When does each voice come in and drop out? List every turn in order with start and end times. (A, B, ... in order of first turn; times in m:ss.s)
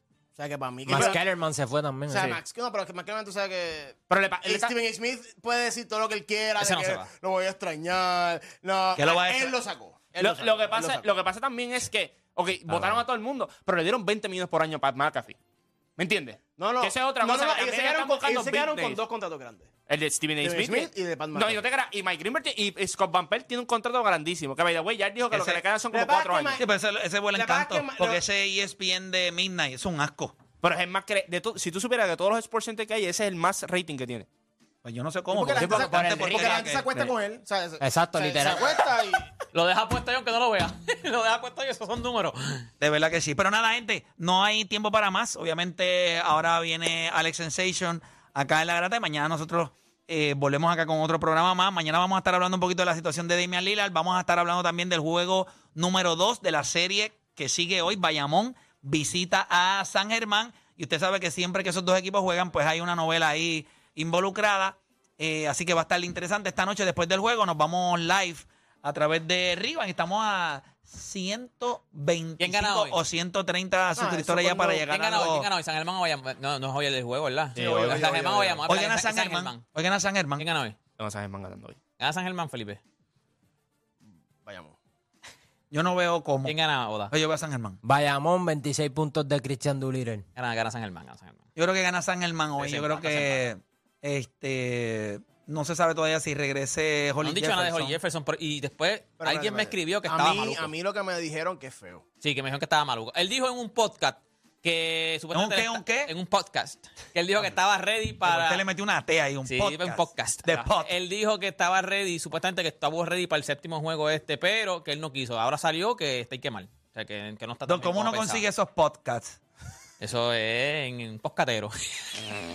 0:00.4-0:01.2 A
0:00.9-0:02.3 B
0:00.9-0:01.2 C
0:02.1-0:11.1 A
0:04.1-0:04.7 C
0:06.6-0:07.1 D
0:09.0-0:09.6 E
0:10.2-0:15.4 C
0:16.0-0:19.0 C
0:16.6-0:19.7 A
0:19.9-0:26.6 C
0:20.4-0:21.6 A
0:25.3-0:25.6 E
0:25.9-0:26.6 A
0:26.6-0:30.4 E
0:27.3-0:28.2 A
0:30.6-0:34.3 C
0:34.8-0:37.1 E
0:35.3-0:39.3 A
0:35.5-0:36.6 B
0:37.8-0:38.8 B
0:39.5-0:42.7 D
0:42.8-1:15.5 E
1:12.4-1:13.0 D
1:13.9-1:14.8 A
1:14.9-1:19.7 D
1:17.5-1:18.7 C
1:17.6-1:18.1 A
1:18.6-1:20.4 E
1:20.4-1:20.8 D
1:21.0-1:21.8 C
1:22.0-1:22.8 D
1:24.4-1:24.8 A
1:25.7-1:26.5 E
1:26.4-1:27.1 D
1:27.1-1:27.8 E
1:27.8-1:30.2 B
1:30.4-1:31.5 D
1:31.6-1:38.0 E
1:32.6-1:33.4 D
1:37.2-1:40.7 D
1:39.2-1:42.0 A
1:42.2-1:48.6 D
1:45.3-1:46.1 E
1:48.2-1:50.9 E
1:49.5-1:58.4 D
1:57.7-1:59.4 E
2:00.0-2:02.1 D